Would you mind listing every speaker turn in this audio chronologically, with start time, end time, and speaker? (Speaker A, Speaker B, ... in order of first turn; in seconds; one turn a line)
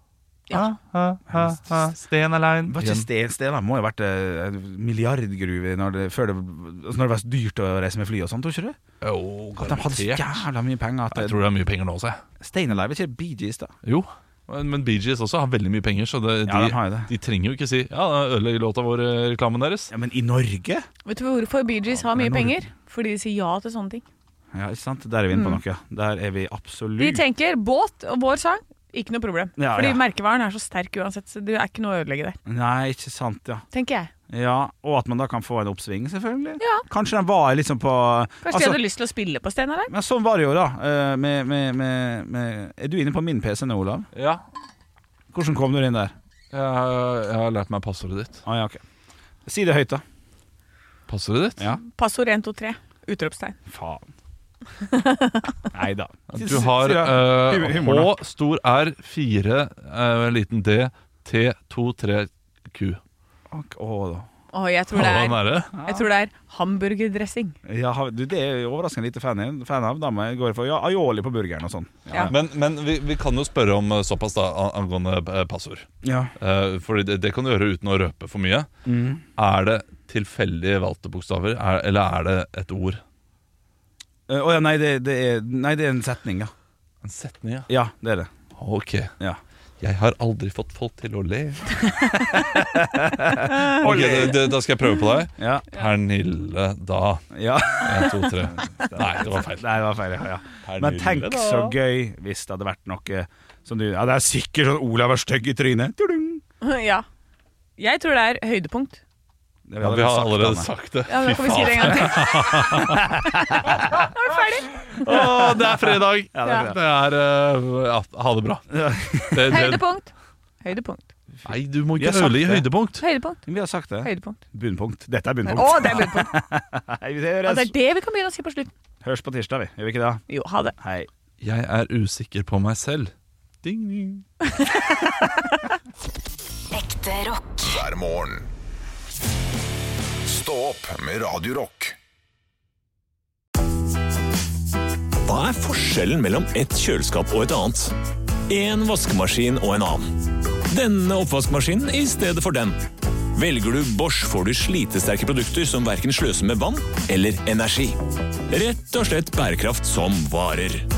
Speaker A: 0.5-0.8
Speaker B: 0.5-3.1
Speaker C: 1.3-2.0
Speaker C: 2.6-8.8
Speaker B: 9.0-10.5
Speaker C: 9.6-11.4
Speaker B: 11.1-12.2
Speaker C: 12.4-13.7
Speaker B: 13.8-19.9
Speaker C: 16.5-17.1
Speaker C: 19.9-20.9
Speaker A: 21.1-24.0
Speaker C: 22.1-22.6
Speaker C: 24.5-27.2
Speaker A: 25.3-25.6
Speaker A: 27.0-32.4
Speaker C: 29.6-30.0
Speaker C: 32.5-33.6
Speaker A: 33.7-34.1
Speaker C: 34.3-38.8
Speaker A: 36.6-36.9
Speaker A: 38.4-39.9
Speaker C: 39.9-44.1
Speaker B: 44.1-44.4
Speaker C: 45.3-46.1
Speaker B: 46.5-48.4
Speaker C: 48.5-48.8
Speaker C: 49.5-50.0
Speaker B: 51.1-51.6
Speaker A: 51.9-53.6
Speaker C: 53.7-54.0
Speaker A: 54.8-55.7
Speaker C: 55.7-58.1
Speaker B: 56.3-63.0
Speaker C: 63.5-64.3
Speaker A: 64.5-67.6
Speaker B: 64.9-65.7
Speaker C: 65.8-66.0
Speaker C: 67.7-72.3
Speaker B: 72.2-78.7
Speaker C: 76.0-76.3
Speaker C: 78.8-79.2
Speaker B: 79.4-83.0
Speaker C: 84.3-86.5
Speaker B: 87.0-87.7
Speaker C: 87.7-88.3
Speaker B: 88.6-89.1
Speaker B: 89.8-92.1
Speaker C: 92.2-94.5
Speaker A: 93.6-94.3
Speaker B: 93.7-97.3
Speaker C: 95.4-95.7
Speaker C: 97.3-106.4
Speaker B: 97.8-99.8
Speaker B: 100.6-101.7
Speaker A: 106.6-107.0
Speaker A: 107.8-109.0
Speaker C: 109.7-110.7
Speaker B: 109.8-113.1
Speaker A: 111.1-112.9
Speaker C: 112.8-113.8
Speaker A: 113.5-115.2
Speaker B: 115.0-118.8
Speaker C: 115.1-116.8
Speaker A: 116.4-116.7
Speaker C: 118.7-119.6
Speaker B: 119.3-119.8
Speaker A: 119.5-120.1
Speaker A: 120.6-121.1
Speaker C: 121.4-122.7
Speaker B: 121.5-123.0
Speaker A: 123.0-123.4
Speaker C: 123.5-127.7
Speaker A: 124.0-124.4
Speaker A: 125.5-126.3
Speaker A: 127.5-128.7
Speaker C: 129.0-130.2
Speaker A: 130.3-130.8
Speaker C: 130.8-131.1
Speaker B: 131.4-134.3
Speaker A: 134.4-135.6
Speaker D: 137.5-138.5
Speaker D: 140.2-142.0
Speaker E: 145.2-147.9
Speaker E: 148.5-150.1
Speaker E: 150.7-152.8
Speaker E: 153.3-158.0
Speaker E: 158.5-160.8